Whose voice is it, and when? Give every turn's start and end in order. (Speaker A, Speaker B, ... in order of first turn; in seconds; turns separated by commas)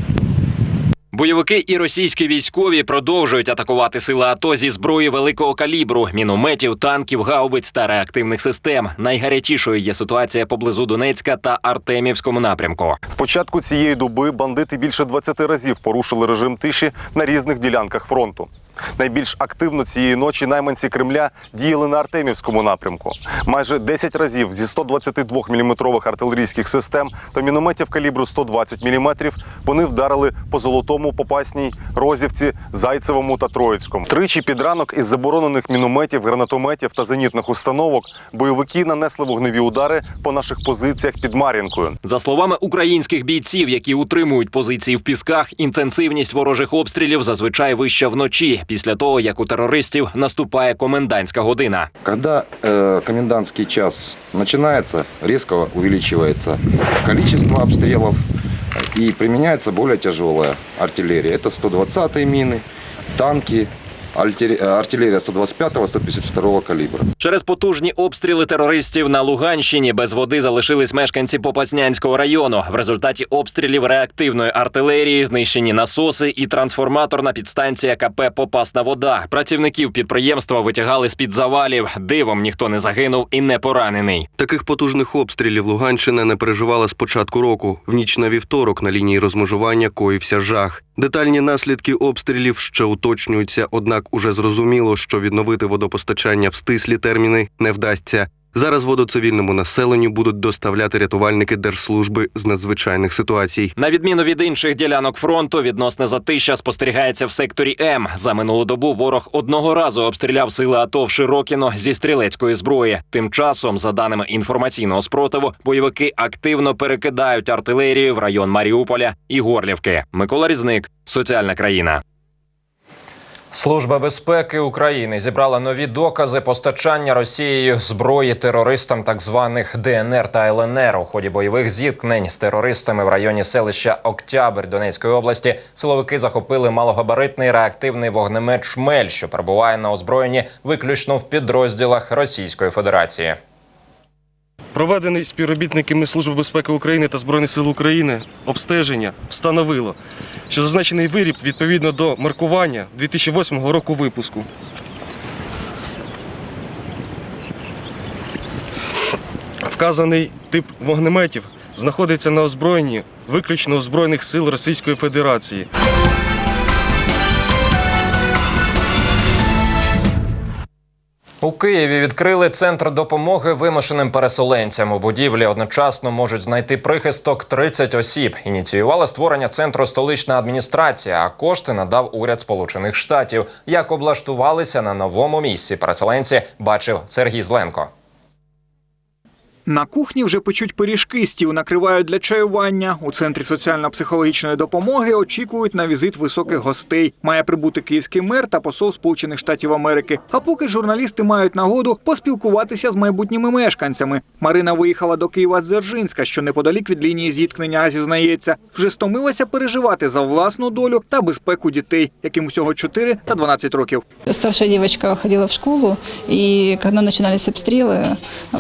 Speaker A: 1.1-13.0, Speaker B: 13.1-42.0, Speaker A: 42.0-51.9, Speaker C: 52.0-58.2, Speaker C: 58.9-62.6, Speaker C: 63.2-67.0, Speaker A: 67.2-84.3, Speaker D: 84.4-103.7, Speaker A: 103.8-122.0, Speaker A: 123.5-143.4, Speaker E: 144.7-150.0, Speaker E: 150.5-154.5, Speaker E: 159.7-165.7, Speaker A: 171.4-187.9, Speaker F: 189.7-214.0, Speaker G: 214.4-215.7, Speaker G: 216.9-218.0